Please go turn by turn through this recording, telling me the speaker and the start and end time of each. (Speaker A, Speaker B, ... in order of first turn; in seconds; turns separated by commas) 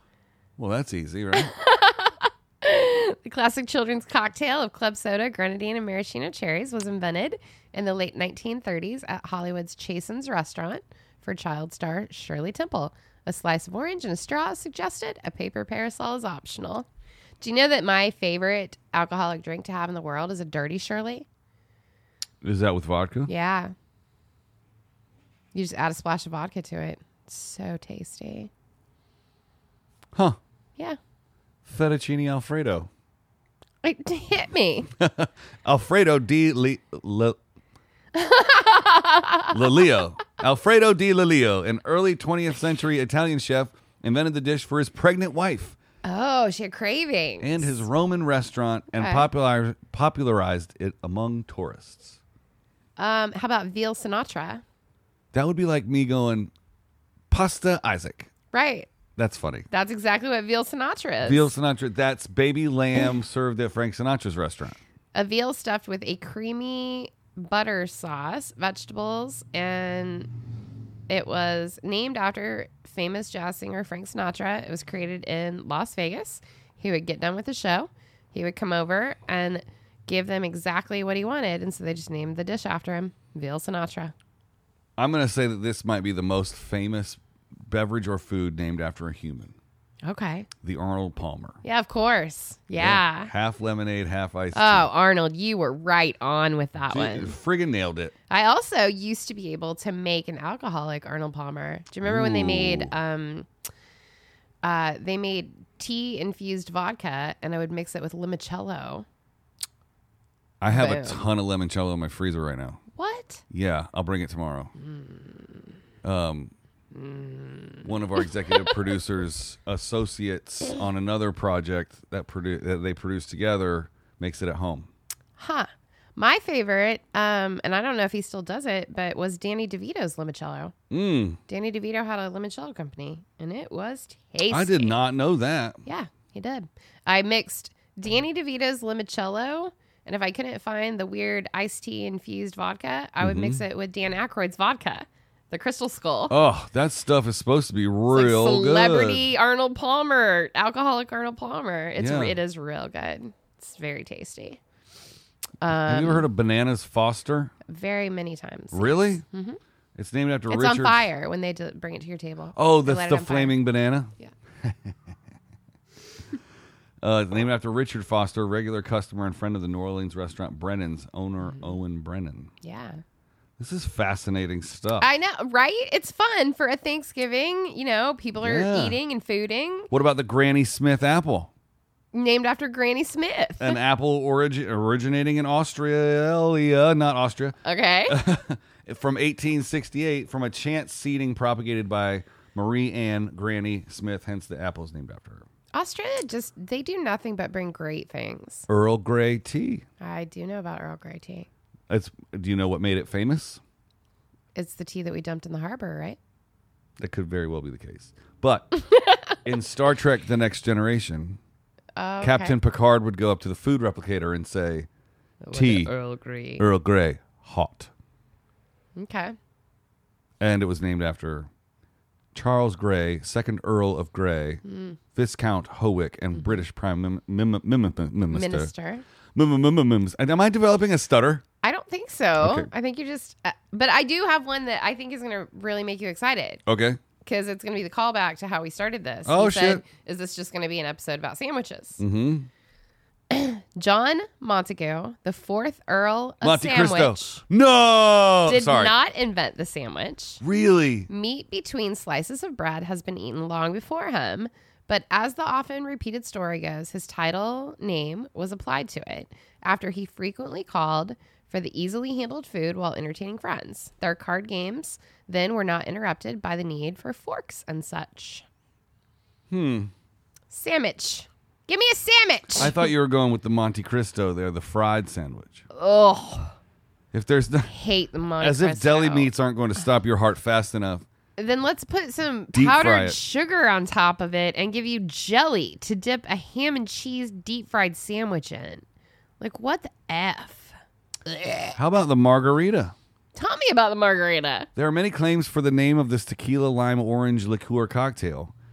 Speaker A: 0.6-1.5, Speaker B: 1.3-16.9, Speaker B: 17.4-21.2, Speaker A: 22.4-23.3, Speaker B: 23.3-23.8, Speaker B: 25.5-28.5, Speaker A: 31.6-32.9, Speaker B: 33.8-34.9, Speaker A: 35.0-37.4, Speaker B: 38.1-39.8, Speaker A: 39.5-45.8, Speaker B: 46.0-47.9, Speaker A: 47.4-52.2, Speaker B: 48.9-49.3, Speaker B: 53.0-54.6, Speaker A: 55.3-56.5, Speaker A: 57.3-58.3, Speaker B: 58.5-58.9, Speaker A: 59.2-59.7, Speaker B: 59.7-61.5, Speaker A: 61.2-64.8, Speaker B: 65.1-70.3, Speaker B: 71.1-84.1, Speaker A: 85.0-89.6, Speaker B: 90.0-90.5, Speaker A: 90.6-91.6, Speaker B: 91.6-93.3, Speaker A: 92.8-94.9, Speaker B: 94.5-97.4, Speaker A: 96.9-98.1, Speaker B: 98.3-103.5, Speaker A: 102.0-103.0, Speaker B: 104.6-109.1, Speaker A: 110.6-112.8, Speaker B: 110.7-111.2, Speaker B: 113.0-113.4, Speaker A: 113.5-114.7, Speaker B: 114.8-115.8, Speaker A: 116.0-116.5, Speaker B: 116.9-118.9, Speaker A: 117.8-124.9, Speaker B: 125.4-130.7, Speaker A: 130.9-131.4, Speaker B: 131.5-135.0, Speaker A: 134.5-135.8, Speaker B: 135.8-146.3, Speaker A: 143.2-143.6, Speaker A: 146.3-149.3, Speaker B: 148.1-154.6, Speaker A: 152.0-152.4, Speaker B: 155.6-156.3, Speaker A: 155.8-157.5, Speaker B: 157.7-159.6, Speaker A: 158.7-159.2, Speaker A: 160.0-161.1, Speaker B: 160.5-163.6, Speaker A: 162.6-164.1, Speaker A: 164.6-165.0, Speaker A: 167.0-172.5, Speaker B: 171.4-171.8, Speaker B: 172.6-173.0, Speaker A: 173.6-175.1, Speaker B: 175.0-179.9, Speaker A: 178.4-179.0, Speaker A: 179.9-181.5, Speaker B: 182.1-183.8, Speaker A: 183.6-195.5, Speaker B: 187.6-188.2, Speaker B: 195.7-198.7, Speaker A: 198.7-199.8, Speaker B: 200.0-201.5, Speaker A: 201.9-203.6, Speaker B: 204.6-206.2, Speaker A: 207.0-208.8, Speaker A: 209.4-211.4, Speaker B: 212.0-212.6, Speaker A: 212.2-214.9, Speaker B: 215.4-216.7, Speaker A: 215.5-215.9, Speaker A: 216.6-217.9, Speaker B: 219.0-219.4, Speaker A: 220.4-221.5, Speaker A: 222.3-224.6, Speaker B: 224.6-225.0, Speaker A: 225.1-228.7, Speaker B: 228.3-229.1, Speaker A: 229.3-231.4, Speaker B: 231.6-236.6, Speaker A: 232.4-232.7, Speaker A: 236.7-237.0, Speaker B: 237.2-242.0, Speaker A: 239.2-239.8, Speaker A: 242.0-242.5, Speaker B: 243.3-247.4, Speaker A: 246.4-248.9, Speaker B: 248.4-250.4, Speaker A: 250.4-251.1, Speaker B: 251.1-268.5, Speaker A: 269.5-269.9, Speaker B: 270.5-272.9, Speaker A: 272.6-275.6, Speaker B: 275.7-276.6, Speaker A: 277.1-277.7, Speaker B: 277.7-279.3, Speaker A: 278.4-281.1, Speaker B: 281.4-288.9, Speaker A: 282.5-283.2, Speaker B: 289.4-291.8, Speaker A: 291.8-292.9, Speaker B: 293.4-294.7, Speaker A: 294.8-298.5